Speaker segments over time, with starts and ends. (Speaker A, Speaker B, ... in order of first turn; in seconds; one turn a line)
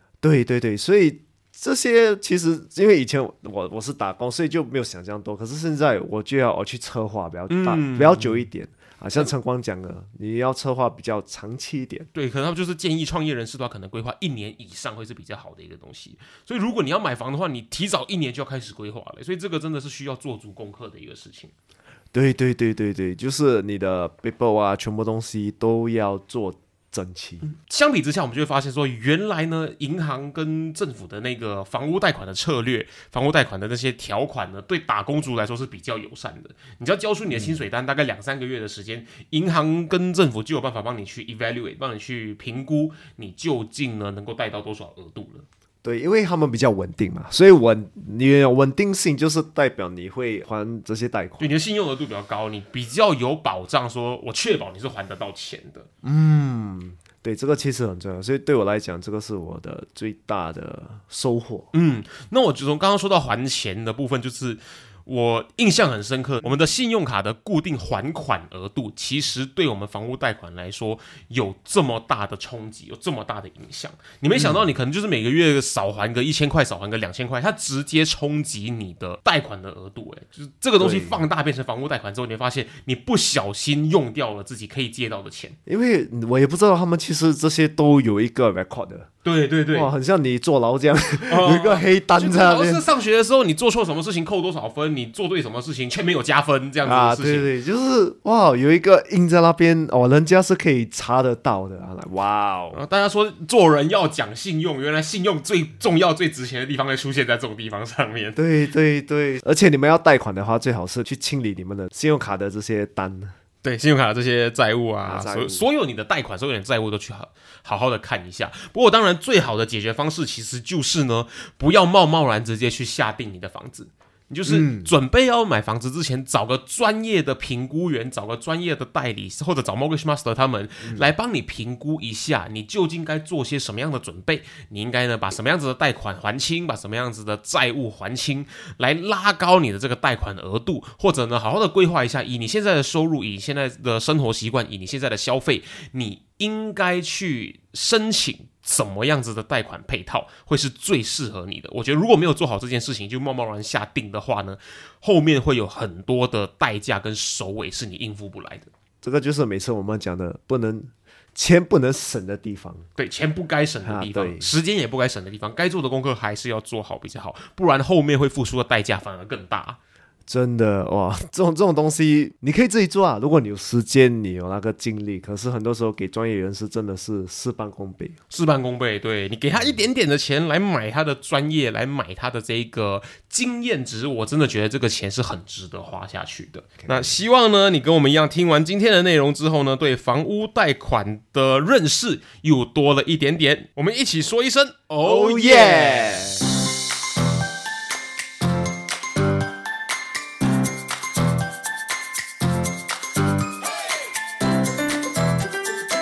Speaker A: 0.2-12.1
Speaker B: 7.5-8.5
Speaker B: 12.2-21.5
Speaker A: 22.1-27.4
Speaker B: 27.4-45.5
Speaker A: 37.3-37.6
Speaker A: 45.8-51.5
Speaker B: 51.4-55.9
Speaker A: 56.0-61.7
Speaker B: 61.7-85.6
Speaker A: 74.3-74.6
Speaker A: 80.8-81.2
Speaker A: 85.7-89.1
Speaker B: 89.2-89.9
Speaker A: 89.7-92.8
Speaker B: 91.2-97.5
Speaker A: 96.8-102.8
Speaker B: 102.7-108.4
Speaker A: 108.4-113.3
Speaker B: 113.6-158.7
Speaker A: 115.0-115.6
Speaker A: 124.5-124.9
Speaker A: 159.0-162.9
Speaker B: 163.0-169.8
Speaker A: 163.8-164.5
Speaker A: 170.3-178.2
Speaker B: 178.3-196.2
Speaker A: 186.8-187.1
Speaker A: 195.0-196.4